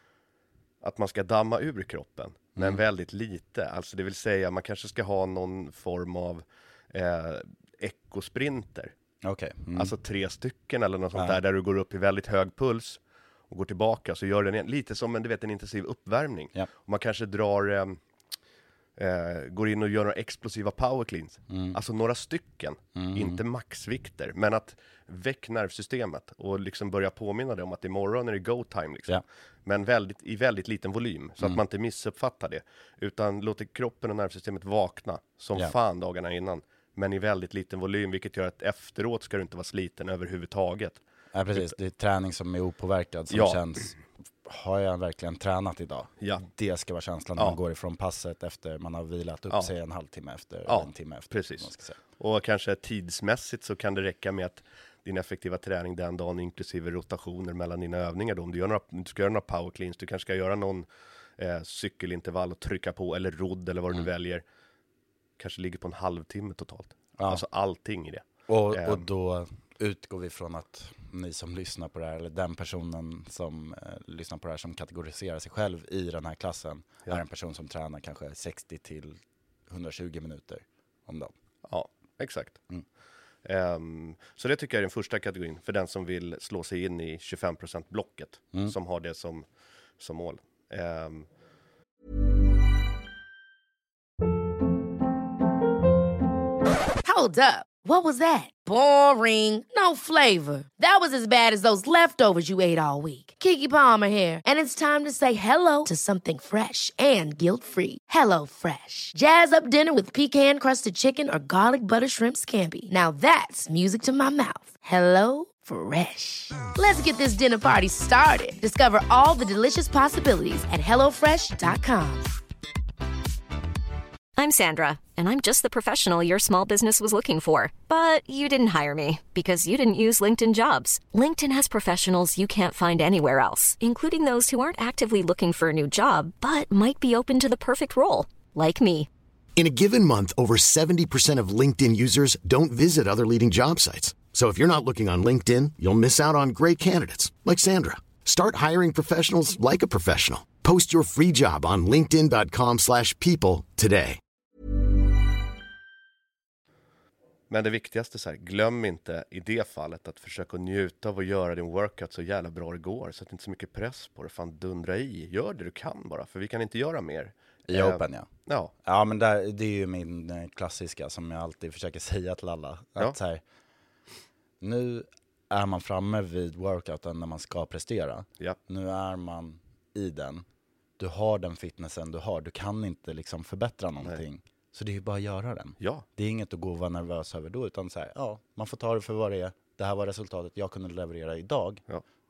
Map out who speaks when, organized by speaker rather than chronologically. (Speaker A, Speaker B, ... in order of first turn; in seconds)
Speaker A: 0.8-8.9, 9.8-18.0, 19.0-41.0, 43.3-43.6, 50.7-64.4, 65.4-69.0, 81.7-82.6, 83.4-91.3, 157.5-168.7, 185.8-186.1
Speaker B: 2.6-2.8, 9.2-9.9, 21.5-21.8, 23.0-23.4, 41.3-52.0, 67.2-67.4, 68.5-81.3, 167.7-168.3, 168.8-173.4, 174.6-180.4, 181.0-191.8
Speaker C: 97.0-122.3
Speaker D: 124.4-139.1
Speaker E: 139.6-154.2